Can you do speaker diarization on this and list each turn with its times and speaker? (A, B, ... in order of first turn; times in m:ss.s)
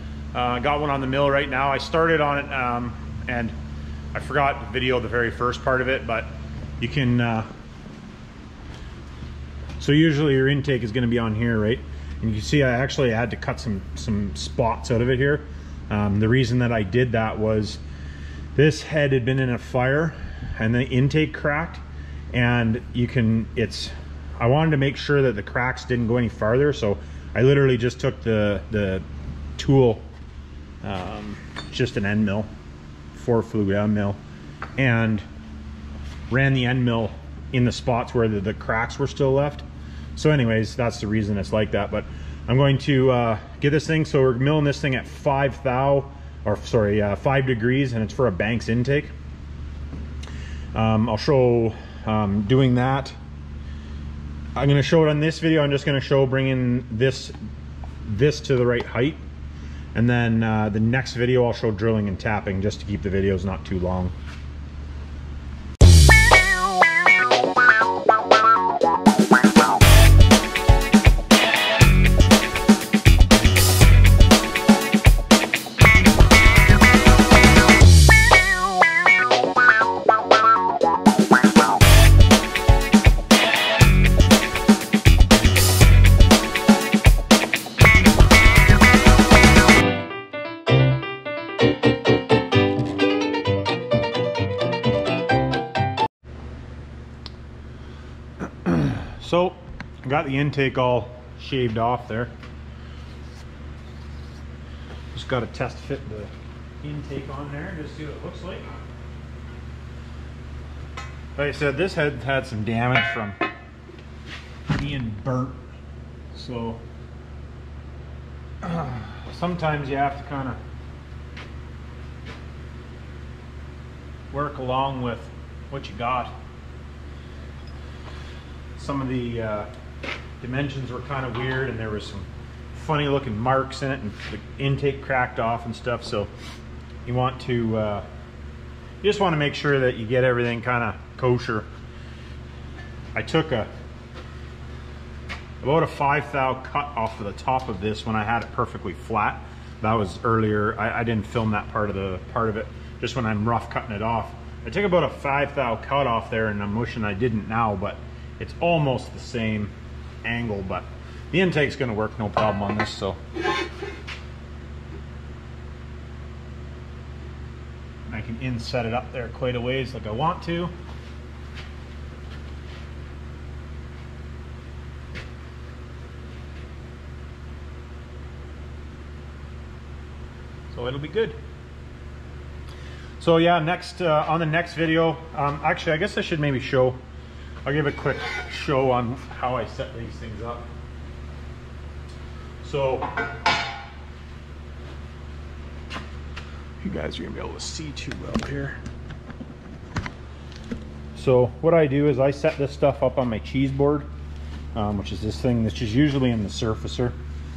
0:00.3-0:03.5 A
0:04.1-0:07.5 A
0:09.8-0:17.8 A
0:18.5-0:21.8 A
0:22.3-0:29.0 A
0:29.6-0:30.1 A
0:30.8-0:32.5 A
0:33.1-0:34.2 A
0:34.8-0:35.2 A
0:36.3-0:39.6 A
0:40.2-0:49.1 A
0:50.7-0:53.1 A
0:54.6-0:57.3 A
0:58.0-0:59.2 A
0:59.9-1:04.1 A
1:38.4-1:42.3 A
1:45.1-1:48.6 A
1:51.4-1:53.4 A
1:54.7-1:55.6 A
1:56.3-1:56.8 A
1:58.6-2:00.6 A
2:04.3-2:06.3 A
2:08.8-2:09.7 A
2:10.4-2:16.3 A
2:17.0-2:18.0 A
2:19.0-2:21.7 A
2:23.1-2:23.7 A
2:25.6-2:39.7 A
2:40.2-2:43.2 A
2:48.1-2:50.7 A
3:00.7-3:01.4 A
3:03.2-3:07.0 A
3:07.6-3:10.7 A
3:12.6-3:13.1 A
3:16.8-3:18.8 A
3:21.1-3:24.1 A
3:24.7-3:27.2 A